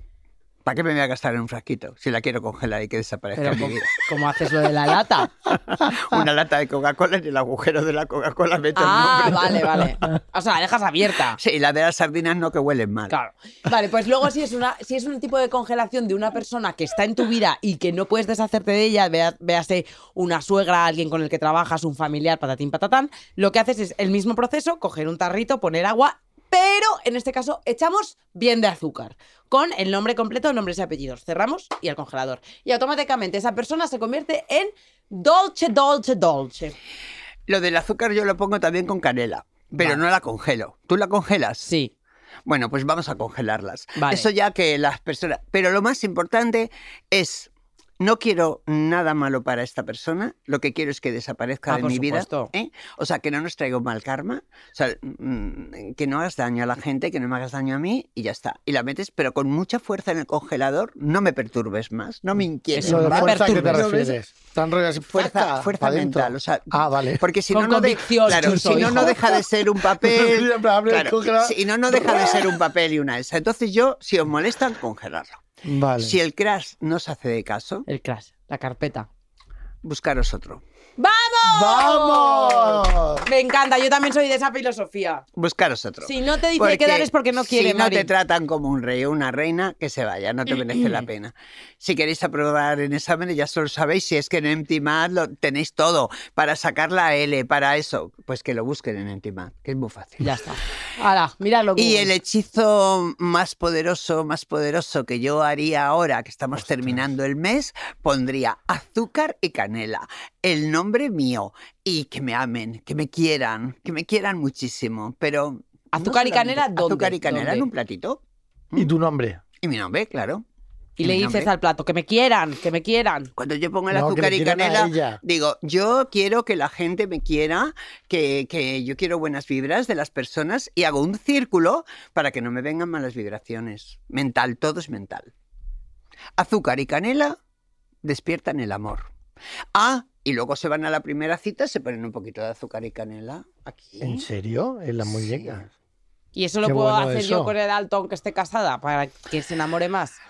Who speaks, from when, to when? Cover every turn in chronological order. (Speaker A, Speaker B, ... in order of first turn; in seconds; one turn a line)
Speaker A: 0.6-4.0
Speaker B: 3.4-5.3
Speaker A: 5.5-9.6
Speaker B: 8.8-11.4
Speaker A: 11.4-13.1
Speaker B: 13.1-36.8
Speaker A: 37.5-41.7
Speaker B: 41.6-41.9
Speaker A: 42.5-47.5
Speaker B: 44.0-44.3
Speaker A: 48.0-64.2
Speaker B: 51.7-52.5
Speaker B: 62.7-63.8
Speaker C: 62.8-67.2
Speaker A: 65.1-75.4
Speaker B: 67.5-69.2
Speaker C: 68.5-72.5
Speaker C: 75.6-76.2
Speaker A: 76.0-77.8
Speaker B: 77.9-79.1
Speaker A: 79.8-80.6
Speaker B: 81.0-85.2
Speaker C: 81.4-83.2
Speaker A: 85.3-100.3
Speaker B: 86.0-88.1
Speaker B: 90.5-91.1
Speaker B: 100.2-102.1
Speaker A: 101.8-118.2
Speaker B: 115.9-117.7
Speaker C: 118.8-119.4
Speaker A: 119.6-120.4
Speaker B: 121.0-123.3
Speaker A: 121.0-121.5
Speaker A: 123.4-135.3
Speaker C: 123.9-125.2
Speaker A: 136.4-137.4
Speaker A: 138.0-139.1
Speaker A: 139.7-144.3
Speaker C: 144.0-145.7
Speaker A: 145.0-145.6
Speaker B: 146.3-150.2
Speaker C: 146.6-147.5